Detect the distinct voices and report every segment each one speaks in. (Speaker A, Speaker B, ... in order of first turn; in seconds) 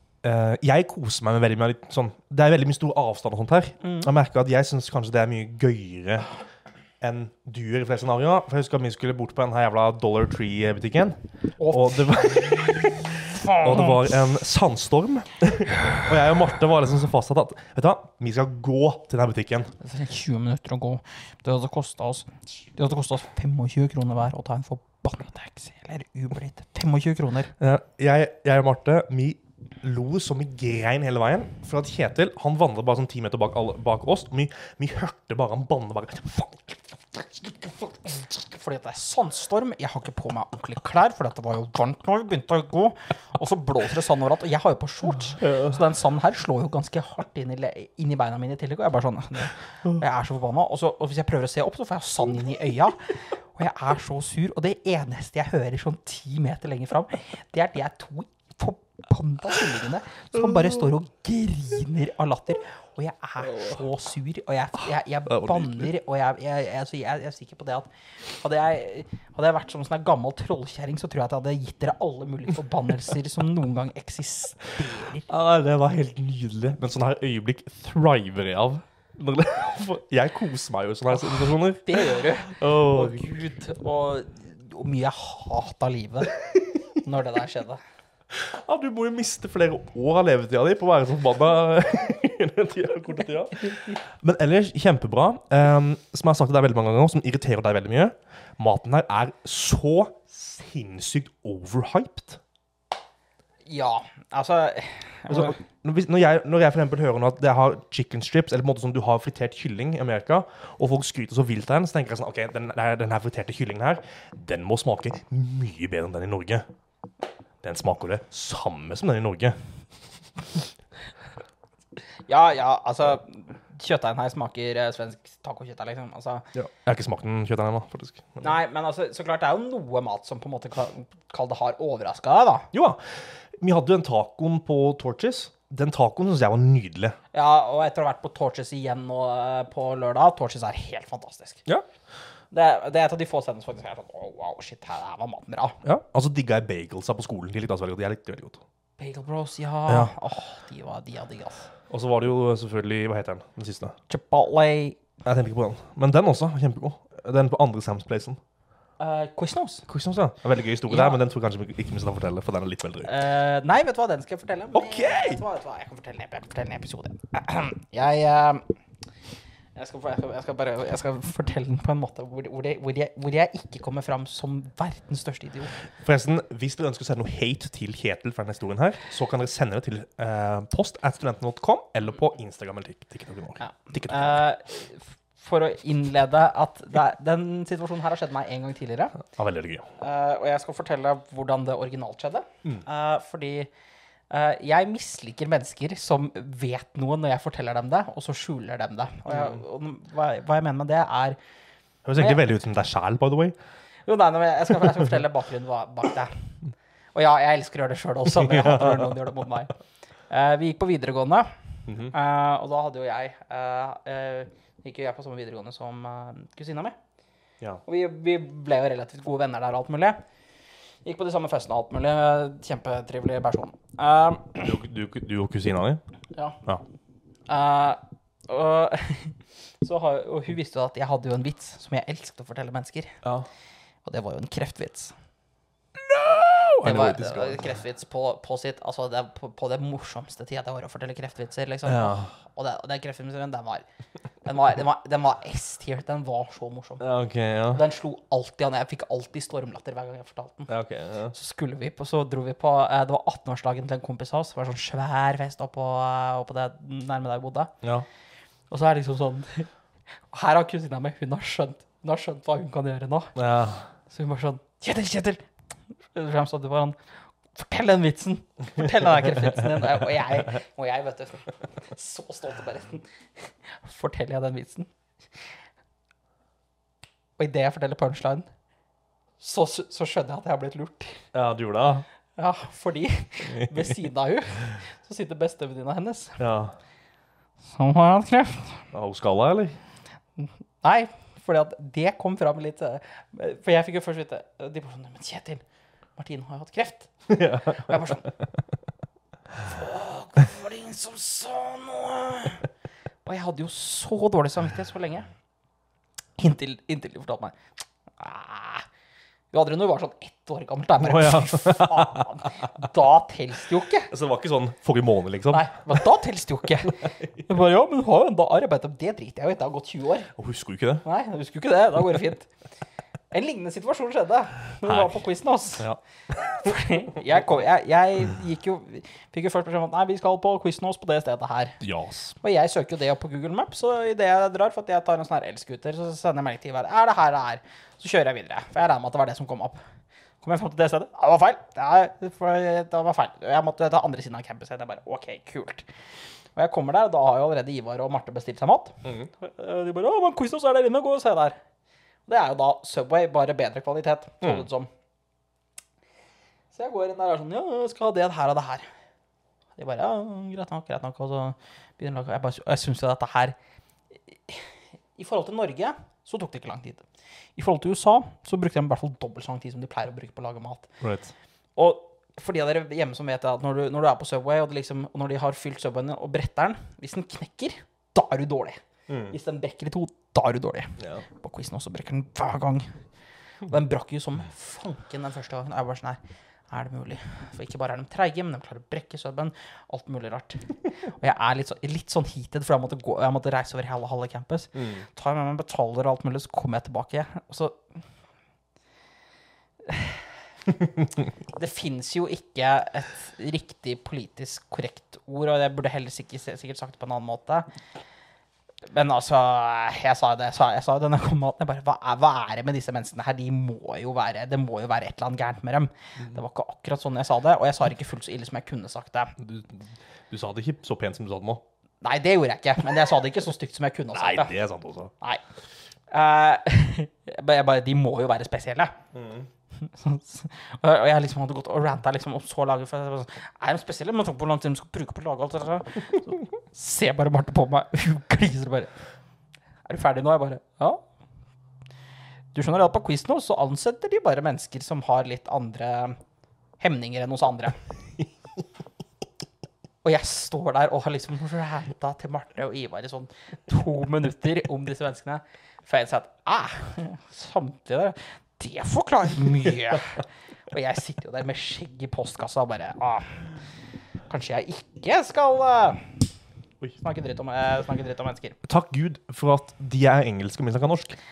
Speaker A: 0.2-6.3, 7.0-19.7, 27.6-37.7, 45.4-45.8, 60.4-60.8, 65.3-65.9, 75.3-83.3, 88.3-102.4, 105.3-116.7, 117.6-119.6, 126.5-128.6, 132.7-137.2, 145.8-148.6, 151.9-154.0, 155.2-158.4, 159.9-163.1, 164.7-165.4, 176.0-184.4, 189.2-189.9, 199.3-199.6, 202.1-203.6, 208.6-209.0, 211.9-212.1, 224.6-226.0, 236.1-237.7, 241.9-242.3, 247.0-247.8, 250.7-251.3, 263.4-263.9, 281.3-282.1, 286.4-286.8, 288.9-289.8, 297.3-298.3, 311.0-312.3, 314.1-315.7, 320.4-321.0, 324.8-325.2, 331.8-332.4, 371.0-371.3, 379.1-379.3, 394.8-395.1, 419.4-421.6, 424.1-425.1, 429.1-429.5, 468.6-471.2
Speaker B: 3.8-4.1, 11.6-14.0, 19.8-27.5, 38.0-75.3, 81.1-86.4, 87.0-87.8, 103.7-105.6, 122.3-126.5, 128.4-132.7, 137.3-141.6, 142.5-145.8, 149.0-151.7, 154.1-155.0, 159.0-159.9, 160.9-161.2, 163.1-168.7, 169.8-175.8, 183.6-189.2, 190.0-193.7, 194.3-201.4, 202.2-202.4, 204.1-206.5, 207.2-209.7, 210.3-211.5, 212.1-217.0, 217.9-220.2, 221.1-224.7, 227.5-233.2, 234.1-235.1, 236.8-243.8, 244.4-247.0, 247.7-250.7, 251.3-257.7, 258.7-259.7, 260.3-263.4, 264.1-265.5, 266.1-267.0, 267.5-274.9, 277.4-278.5, 279.4-281.3, 282.4-286.4, 287.7-288.9, 290.4-295.6, 296.2-298.3, 299.6-302.7, 303.2-305.3, 306.4-307.6, 308.2-308.9, 309.5-314.1, 315.5-320.3, 321.0-322.5, 323.3-325.9, 326.4-331.8, 332.4-339.8, 340.4-345.9, 346.6-351.6, 352.3-354.9, 356.7-358.9, 359.8-363.6, 364.5-367.0, 367.6-370.9, 371.8-382.9, 383.6-397.8, 399.9-400.2, 401.5-407.7, 408.9-419.4, 422.0-424.6, 426.1-429.0, 429.8-438.9, 439.9-441.0, 442.5-446.2, 446.8-447.8, 450.0-463.5, 464.3-466.2, 467.0-468.6